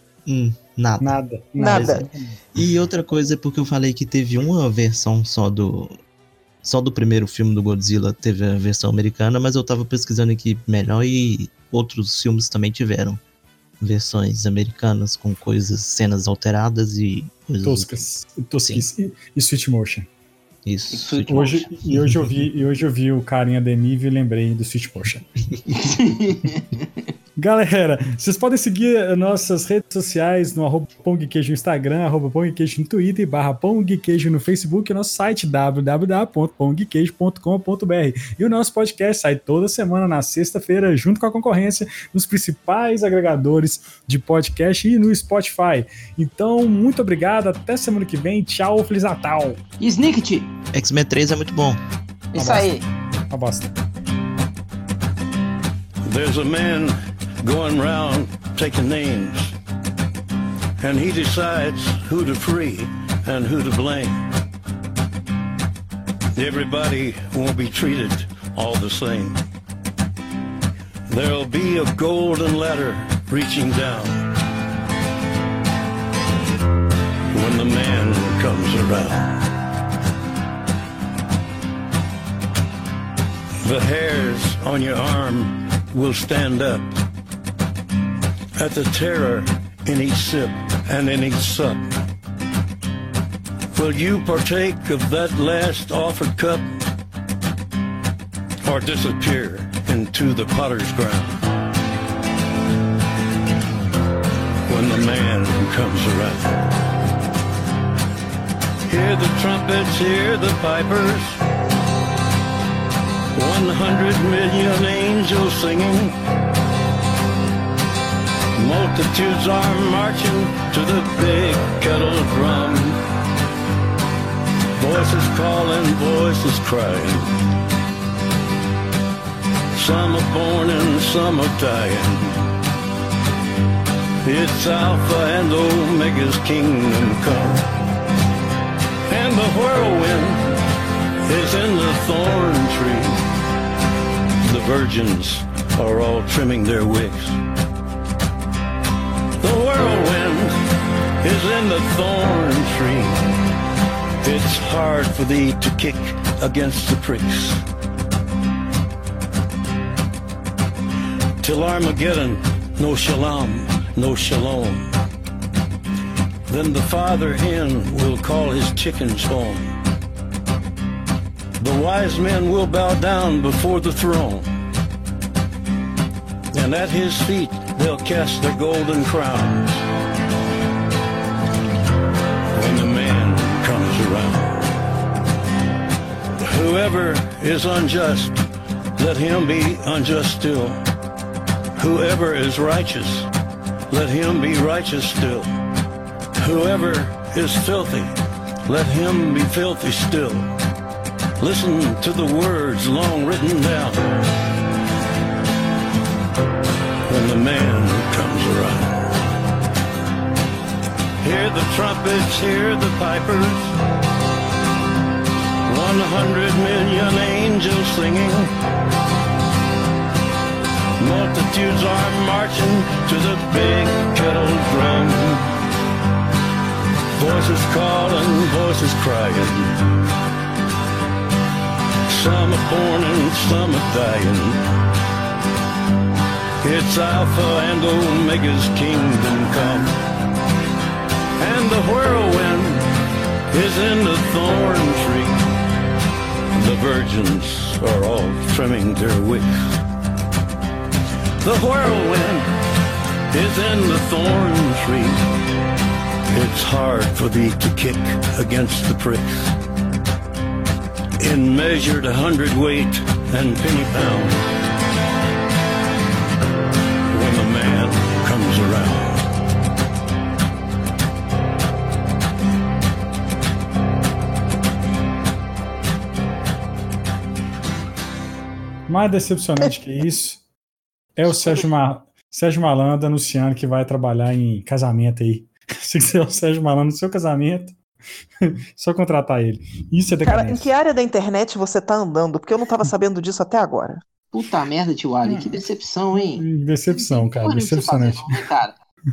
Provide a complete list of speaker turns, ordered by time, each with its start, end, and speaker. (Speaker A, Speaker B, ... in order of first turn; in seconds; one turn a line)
Speaker A: 0.2-5.9
Speaker B: 1.0-2.4
Speaker C: 1.6-2.0
Speaker A: 6.6-13.2
Speaker A: 13.8-18.1
Speaker B: 17.6-20.1
Speaker A: 20.6-22.4
Speaker D: 20.9-21.7
Speaker B: 21.3-25.2
Speaker D: 25.7-27.0
Speaker B: 27.4-49.6
Speaker D: 49.8-50.5
Speaker A: 50.7-51.8
Speaker D: 52.3-52.9
Speaker B: 52.3-52.7
Speaker B: 53.3-53.7
Speaker E: 56.0-59.5
Speaker E: 60.8-64.2
Speaker E: 66.3-69.4
Speaker E: 71.1-74.2
Speaker E: 77.3-79.3
Speaker E: 83.6-86.9
Speaker E: 88.5-91.8
Speaker E: 93.7-96.7
Speaker E: 98.6-101.4
Speaker E: 104.7-106.5
Speaker E: 108.8-111.4
Speaker E: 113.3-116.2
Speaker E: 118.5-123.0
Speaker E: 124.8-127.3
Speaker E: 129.7-132.4
Speaker E: 134.2-137.7
Speaker E: 139.1-140.5
Speaker E: 141.2-143.2
Speaker E: 144.4-147.4
Speaker E: 149.4-150.6
Speaker E: 151.2-153.2
Speaker E: 154.2-157.6
Speaker E: 161.4-164.9
Speaker E: 166.5-169.7
Speaker E: 171.6-174.5
Speaker E: 176.5-179.8
Speaker E: 182.5-184.7
Speaker E: 186.4-188.4
Speaker E: 189.0-190.8
Speaker E: 191.8-193.3
Speaker E: 193.9-195.5
Speaker E: 196.4-198.1
Speaker E: 198.7-200.5
Speaker E: 201.4-204.0
Speaker E: 207.1-209.1
Speaker E: 211.2-213.7
Speaker E: 215.7-218.5
Speaker E: 221.0-225.5
Speaker E: 227.2-229.7
Speaker E: 232.1-234.6
Speaker E: 236.6-239.9
Speaker E: 241.4-242.9
Speaker E: 243.5-245.4
Speaker E: 246.5-249.6
Speaker E: 251.4-252.5
Speaker E: 253.3-255.2
Speaker E: 256.3-259.2
Speaker E: 261.2-264.5
Speaker E: 267.1-269.2
Speaker B: 278.9-280.4
Speaker B: 281.2-287.8
Speaker B: 288.4-290.6
Speaker C: 290.2-294.0
Speaker D: 294.3-298.7
Speaker B: 295.2-295.6
Speaker B: 296.3-298.4